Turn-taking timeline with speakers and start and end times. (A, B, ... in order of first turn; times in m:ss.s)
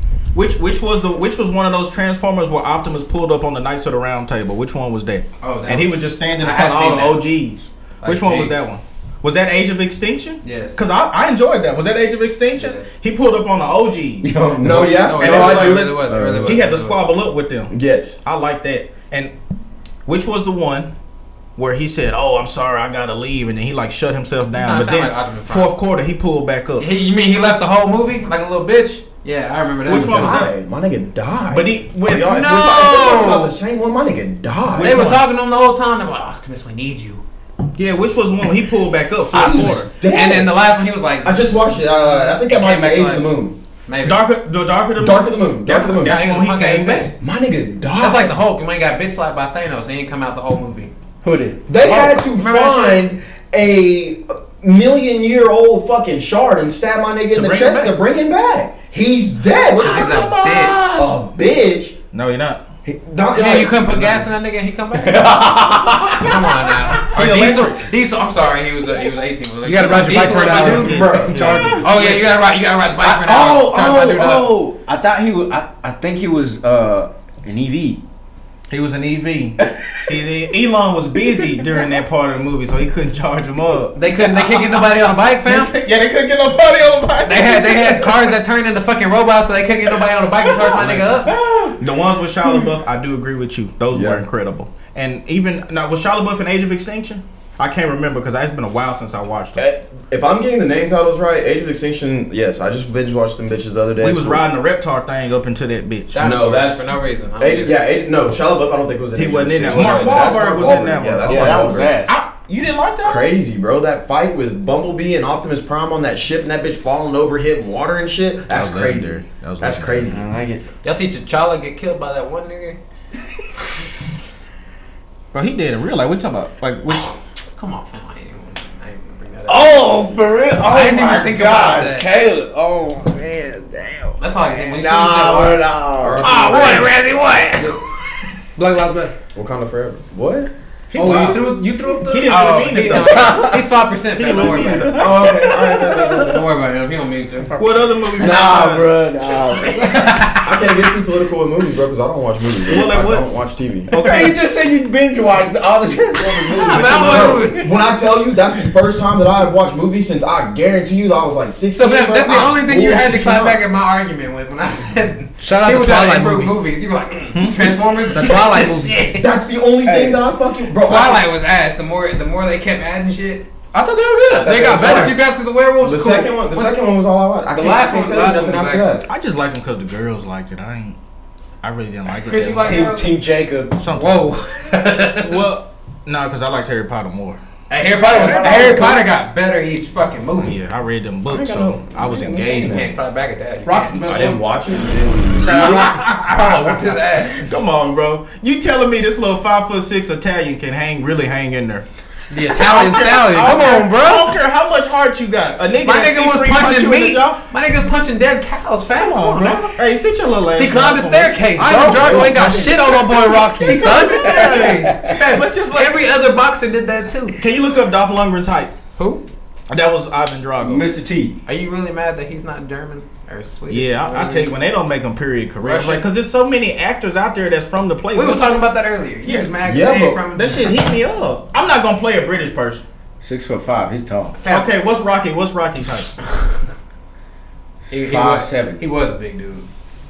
0:00.3-0:19.3 A
0:05.4-0:07.2 B
0:08.0-0:08.6 B
0:10.4-0:10.8 B
0:12.6-0:12.9 B
0:14.2-0:16.6 C
0:14.6-0:15.9 D
0:14.7-0:17.0 B
0:17.7-0:18.2 D
0:20.0-0:20.9 A
0:21.6-0:26.9 A
0:24.5-0:25.7 B
0:26.8-0:30.4 B
0:29.8-0:30.5 A
0:29.9-0:35.0 D
0:31.5-0:33.1 A
0:32.1-0:33.5 B
0:34.7-0:37.2 B
0:34.8-0:35.2 A
0:37.8-0:39.9 A
0:39.3-0:40.5 D
0:40.0-0:43.3 B
0:41.2-0:43.6 D
0:43.8-0:44.2 B
0:44.0-0:47.1 A
0:45.0-0:46.2 D
0:46.0-0:47.1 B
0:47.2-0:48.3 D
0:48.0-0:50.9 B
0:51.2-0:51.6 C
0:51.7-1:00.3 D
0:51.7-0:53.0 B
0:57.3-0:57.9 A
0:59.8-1:00.8 B
0:59.8-1:01.2 A
1:00.9-1:02.0 D
1:02.1-1:02.6 A
1:02.8-1:04.3 D
1:03.3-1:05.4 B
1:05.0-1:06.2 C
1:06.1-1:14.5 B
1:07.0-1:07.8 A
1:09.6-1:11.8 E
1:10.1-1:12.2 A
1:10.3-1:11.7 D
1:11.3-1:11.8 C
1:13.0-1:18.0 C
1:18.7-1:24.8 A
1:24.0-1:25.7 B
1:25.4-1:28.3 A
1:27.2-1:31.3 B
1:30.4-1:39.6 A
1:33.9-1:34.2 D
1:39.6-1:44.5 D
1:44.0-1:46.4 A
1:46.1-1:47.8 B
1:46.2-1:52.0 D
1:49.2-1:53.3 A
1:49.8-1:50.4 B
1:49.8-1:52.2 C
1:53.0-2:00.3 D
1:58.5-2:00.1 A
2:00.1-2:00.6 C
2:00.8-2:02.8 B
2:05.3-2:07.1 A
2:07.5-2:10.0 B
2:09.5-2:16.9 C
2:10.6-2:12.1 B
2:14.2-2:15.6 B
2:16.0-2:16.9 D
2:16.2-2:17.8 B
2:18.6-2:19.1 E
2:19.3-2:20.5 D
2:20.9-2:21.5 A
2:21.0-2:27.6 B
2:21.0-2:21.6 E
2:22.1-2:26.3 A
2:23.0-2:23.6 C
2:24.9-2:26.3 D
2:27.6-2:28.9 A
2:28.2-2:30.3 C
2:29.7-2:30.4 B
2:30.4-2:33.9 D
2:32.7-2:33.2 A
2:33.9-2:34.3 A
2:34.0-2:37.5 C
2:36.6-2:37.7 B
2:36.7-2:37.4 A
2:36.8-2:43.6 D
2:41.8-2:49.2 B
2:45.4-2:46.6 E
2:47.3-2:47.8 A
2:48.1-2:49.1 E
2:49.2-2:51.2 D
2:49.8-2:50.2 C
2:50.7-2:53.4 B
2:53.7-2:55.2 E
2:54.3-2:55.1 C
2:54.6-2:56.7 B
2:55.8-2:59.1 D
2:57.5-2:59.0 B
2:59.1-3:01.0 A
3:01.6-3:02.8 A
3:02.2-3:03.1 B
3:02.5-3:03.8 C
3:03.7-3:04.4 A
3:03.9-3:05.2 E
3:05.0-3:07.4 A
3:07.7-3:10.6 B
3:08.0-3:08.9 E
3:08.2-3:08.9 D
3:08.2-3:08.6 A
3:10.4-3:12.9 A
3:11.3-3:12.9 D
3:12.4-3:14.0 B
3:13.6-3:14.4 E
3:13.9-3:15.8 D
3:15.4-3:16.2 E
3:15.4-3:17.5 B
3:17.3-3:21.8 A
3:22.3-3:24.4 E
3:22.5-3:27.4 A
3:25.8-3:29.7 B
3:28.8-3:31.4 A
3:30.6-3:32.7 B
3:31.6-3:34.5 E
3:31.9-3:32.7 C
3:33.5-3:36.0 A
3:33.6-3:37.4 B
3:34.2-3:35.1 C
3:37.4-3:38.7 A
3:39.0-3:39.2 B
3:39.7-3:40.9 A
3:40.6-3:41.4 C
3:41.4-3:44.5 B
3:43.7-3:48.6 A
3:45.6-3:46.0 B
3:48.1-3:50.7 B
3:49.2-3:49.5 A
3:49.6-3:50.2 D
3:50.3-3:52.8 A
3:53.2-3:54.4 C
3:54.4-3:54.7 B
3:54.5-3:56.2 A
3:57.9-3:58.8 C
3:57.9-3:59.7 B